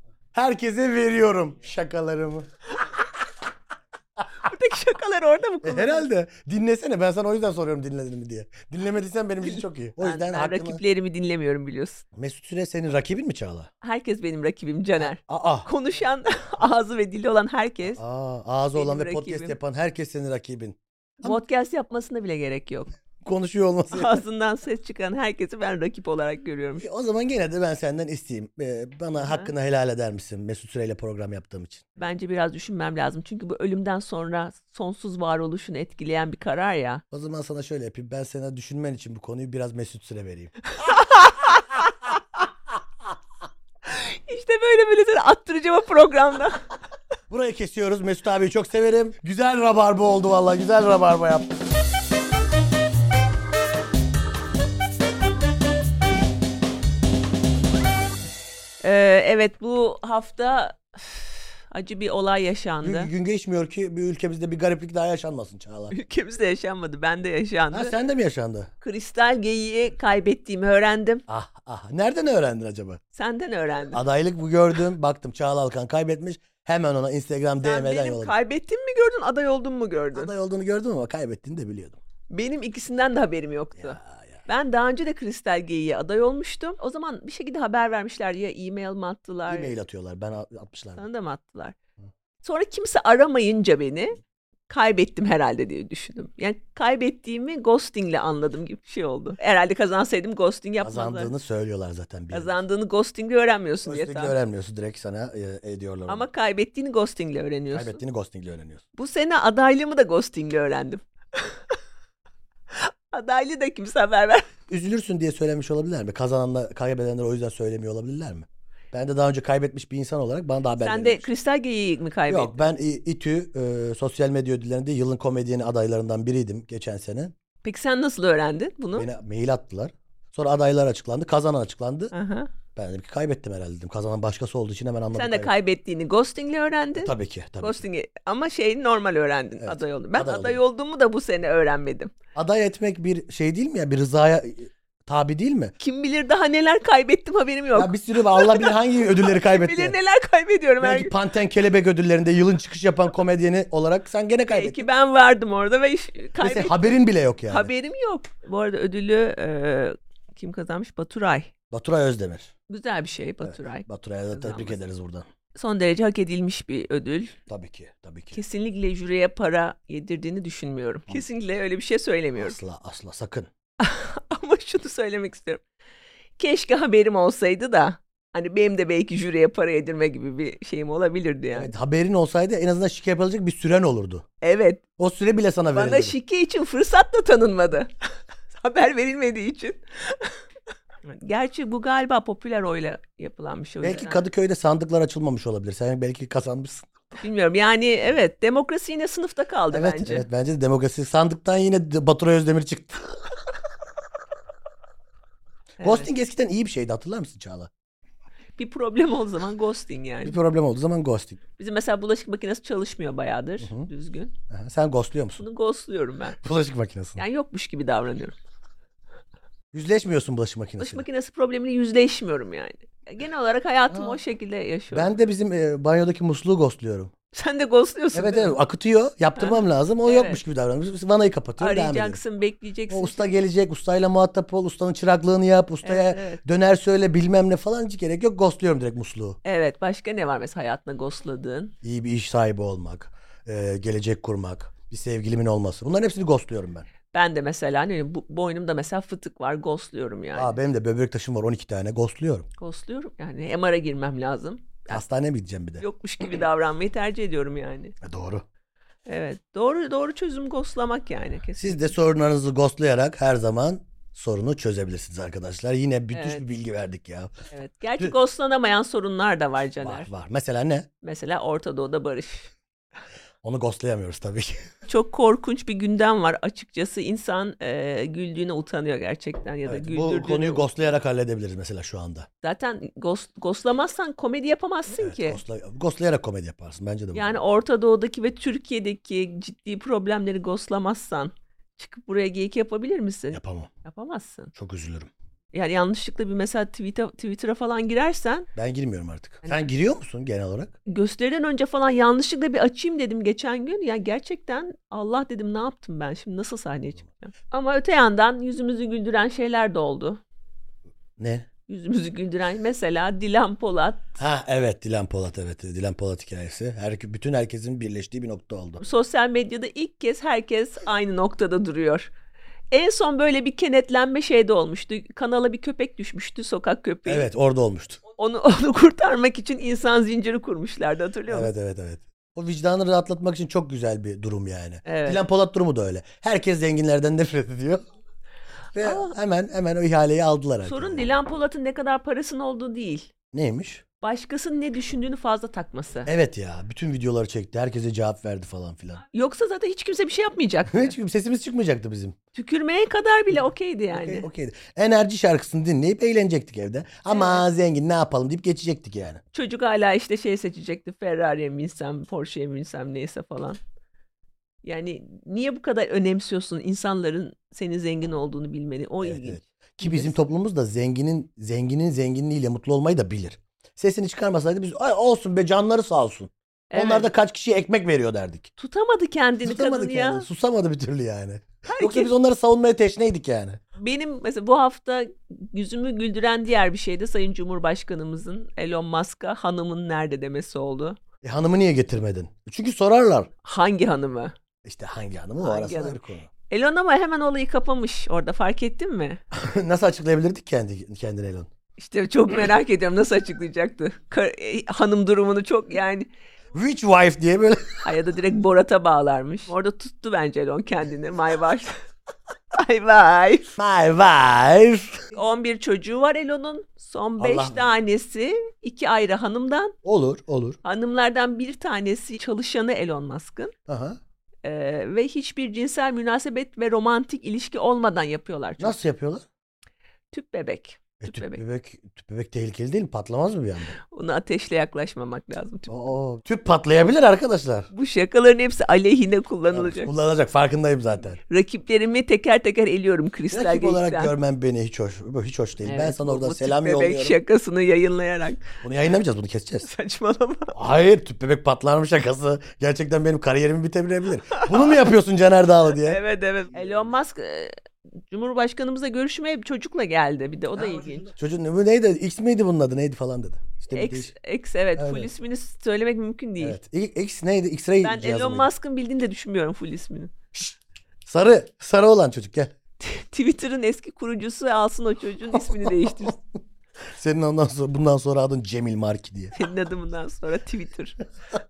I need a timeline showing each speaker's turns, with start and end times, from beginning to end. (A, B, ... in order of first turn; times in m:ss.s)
0:00.3-0:02.5 A
0:04.4-0:06.1 B
0:05.6-0:10.8 A
0:09.4-0:12.0 B
0:12.1-0:13.7 A
0:13.8-0:18.0 B
0:15.0-0:15.7 A
0:17.9-0:21.4 A
0:18.8-0:19.6 B
0:21.2-0:22.9 B
0:23.2-0:24.2 A
0:23.9-0:26.8 B
0:26.8-0:31.9 A
0:29.2-0:29.5 B
0:32.0-0:37.0 B
0:37.1-0:40.6 A
0:40.8-0:41.6 B
0:43.8-0:46.6 B
0:47.3-0:51.5 A
0:58.8-1:03.1 B
1:02.8-1:06.0 A
1:05.9-1:08.0 B
1:07.7-1:08.7 A
1:08.8-1:11.2 B
1:11.3-1:13.0 A
1:13.2-1:14.0 B
1:13.9-1:18.4 A
1:17.6-1:20.3 B
1:20.1-1:22.0 A
1:22.3-1:29.7 B
1:23.8-1:24.4 A
1:29.5-1:31.0 A
1:31.0-1:31.8 B
1:32.4-1:34.2 B
1:34.7-1:41.3 B
1:40.8-1:42.6 A
1:42.3-1:44.4 B
1:43.8-1:46.3 A
1:46.1-1:48.0 B
1:47.7-1:48.9 A
1:49.0-1:51.6 B
1:52.7-1:54.5 B
1:54.7-2:01.3 A
2:00.8-2:02.6 B
2:02.3-2:07.3 A
2:07.6-2:09.1 B
2:09.0-2:12.1 A
2:12.1-2:12.5 B
2:12.8-2:15.5 A
2:15.1-2:22.1 B
2:17.0-2:17.8 A
2:19.6-2:20.6 A
2:22.4-2:25.7 A
2:25.8-2:31.1 B
2:27.7-2:30.0 A
2:30.8-2:34.9 A
2:34.5-2:36.9 B
2:36.4-2:37.7 A
2:37.5-2:41.5 B
2:41.7-2:42.5 A
2:42.7-2:44.8 B
2:43.4-2:45.3 A
2:45.6-2:47.4 B
2:47.5-2:48.4 A
2:48.3-2:52.6 B
2:52.4-2:53.5 A
2:53.8-2:55.6 B
2:56.4-3:01.7 B
3:01.5-3:04.2 A
3:04.4-3:04.8 B
3:05.0-3:06.2 A
3:05.8-3:07.9 B
3:08.5-3:10.3 B
3:11.1-3:14.2 B
3:13.8-3:16.9 A
3:17.2-3:20.3 B
3:19.7-3:23.2 A
3:25.8-3:26.1 B
3:25.8-3:27.7 A
3:28.6-3:30.4 B
3:30.2-3:31.4 A
3:31.6-3:34.3 B
3:33.6-3:33.9 A
3:34.5-3:35.4 A
3:35.4-3:36.4 B
3:36.4-3:37.2 A
3:37.2-3:38.4 B
3:39.7-3:41.1 A
3:40.8-3:45.1 B
3:43.9-3:44.2 A
3:44.9-3:47.1 A
3:47.3-3:48.6 B
3:48.1-3:52.2 A
3:49.4-3:50.4 B
3:51.6-3:53.2 B
3:52.9-3:59.4 A
3:55.8-3:56.4 B
3:59.4-4:01.7 B
4:01.8-4:06.9 A
4:07.1-4:10.6 B
4:10.3-4:12.5 A
4:12.6-4:15.0 B
4:14.9-4:15.8 A
4:15.8-4:18.0 B
4:18.0-4:18.4 A
4:19.1-4:21.9 B
4:21.6-4:27.3 A
4:26.1-4:26.4 B
4:27.5-4:30.1 B
4:29.8-4:30.9 A
4:31.0-4:32.5 B
4:33.4-4:34.7 A
4:34.9-4:40.6 B
4:39.7-4:42.3 A
4:42.4-4:45.4 B
4:44.9-4:47.4 A
4:47.1-4:54.5 B
4:53.3-4:53.7 A
4:54.6-4:55.1 A
4:55.5-4:58.5 B
4:58.6-5:00.7 A
5:00.9-5:10.2 B
5:11.2-5:11.5 A
5:11.7-5:14.2 B
5:14.2-5:18.8 A
5:18.8-5:22.1 B
5:22.7-5:27.3 B
5:27.1-5:28.0 A
5:28.2-5:31.5 B
5:31.3-5:37.8 A
5:34.9-5:35.2 B
5:38.7-5:41.1 A
5:40.6-5:43.1 B
5:43.3-5:43.8 A
5:44.0-5:46.1 B
5:46.0-5:49.0 A
5:49.1-5:51.0 B
5:50.7-5:52.2 A
5:52.4-5:54.3 B
5:53.9-5:59.2 A
5:57.1-5:57.4 B
5:59.3-6:03.6 B
6:04.6-6:10.2 B
6:09.0-6:18.5 A
6:16.7-6:17.1 B
6:18.6-6:20.3 B
6:19.4-6:23.6 A
6:21.6-6:22.1 B
6:23.8-6:31.0 B
6:31.2-6:33.3 A
6:33.4-6:34.3 B
6:34.6-6:36.3 A
6:35.4-6:39.2 B
6:39.3-6:41.5 A
6:41.8-6:46.1 B
6:46.5-6:47.8 A
6:47.8-6:51.7 B
6:52.5-6:53.5 B
6:53.6-6:55.0 A
6:55.1-6:59.8 B
6:57.2-6:57.6 A
6:59.8-7:00.6 A
7:00.6-7:03.5 B
7:03.7-7:04.0 A
7:04.4-7:08.8 B
7:08.6-7:09.3 A
7:10.1-7:11.4 B
7:11.0-7:13.8 A
7:13.9-7:15.7 B
7:15.7-7:17.7 A
7:17.7-7:19.9 B
7:19.5-7:21.2 A
7:21.3-7:24.1 B
7:23.3-7:27.2 A
7:25.6-7:28.5 B
7:28.6-7:29.7 A
7:29.6-7:30.5 B
7:30.5-7:36.0 A
7:35.8-7:37.5 B
7:38.1-7:41.1 B
7:40.6-7:44.1 A
7:43.7-7:46.6 B
7:44.8-7:45.1 A
7:46.4-7:48.5 A
7:47.8-7:50.1 B
7:51.1-7:52.5 A
7:52.8-7:56.2 B
7:55.4-7:56.1 A
7:56.9-7:59.4 A
7:59.4-8:01.0 B